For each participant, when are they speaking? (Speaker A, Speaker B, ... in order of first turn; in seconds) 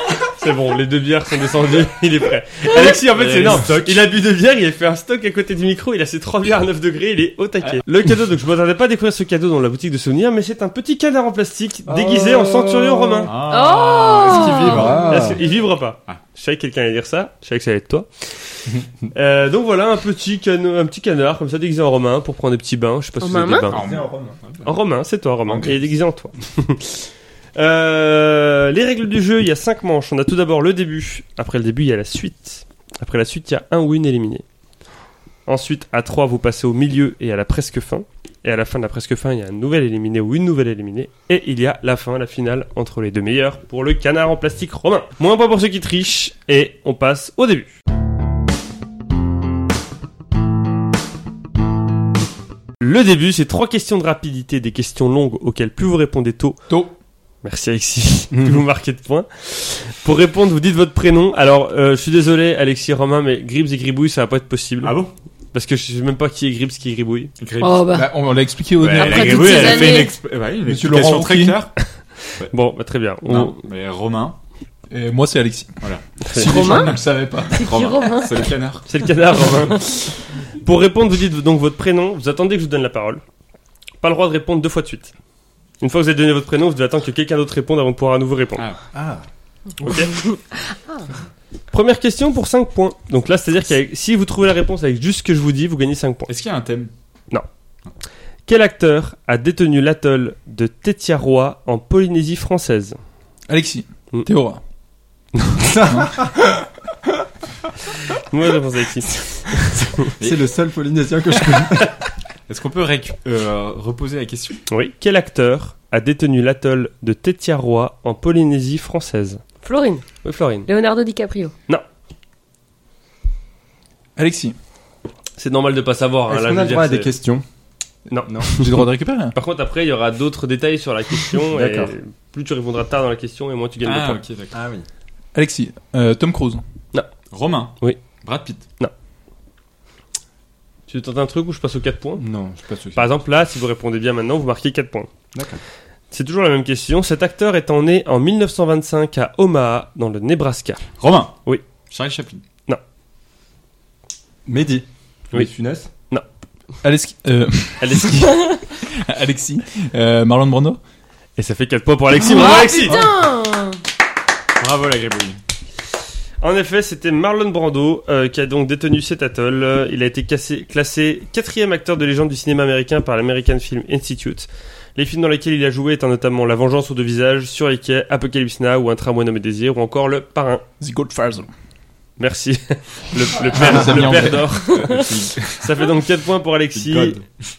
Speaker A: 0.3-13.3, 15.1-23.9, 24.6-27.0, 27.6-34.4, 35.5-47.8, 52.8-56.6, 57.4-64.9, 65.5-67.3, 69.2-69.7, 72.4-73.6, 76.2-76.5, 78.9-83.2, 84.0-85.1, 85.8-88.7, 89.8-90.1, 91.7-96.3, 98.5-103.0, 108.3-110.1, 114.7-119.4, 120.2-120.7, 125.4-127.1, 128.1-128.8, 129.3-134.2, 140.9-142.2, 142.9-145.1, 146.1-150.9, 157.8-158.3, 161.4-163.0, 166.4-180.6, 182.2-187.2
Speaker B: 3.1-3.9, 13.3-15.5, 23.7-24.7, 25.5-25.8, 64.8-65.1, 67.4-67.9, 68.8-71.7, 73.2-74.4, 75.8-76.9, 77.5-78.9, 96.3-96.9, 112.5-114.6, 133.8-134.5, 137.3-138.6, 151.0-152.4, 164.6-165.4, 184.7-185.6, 186.8-187.2
Speaker C: 3.2-4.0, 11.9-13.4, 14.2-15.4, 23.7-24.4, 58.3-58.6, 88.9-89.2, 105.6-106.6, 110.2-111.9, 126.3-127.4, 128.2-128.7, 131.5-131.9, 134.5-134.9, 142.2-143.1, 145.3-145.6, 154.4-155.9
Speaker D: 13.5-15.0, 23.2-23.7, 67.6-68.1, 69.0-70.1, 76.4-77.0, 77.5-78.5, 119.6-120.2, 120.7-121.5, 162.2-163.8
Speaker E: 56.7-56.9, 67.9-69.8, 70.6-71.6, 74.9-75.8, 76.3-77.6, 103.5-104.6, 124.2-124.6, 128.5-129.4, 135.3-136.6, 156.8-160.8, 180.8-181.5, 183.5-184.5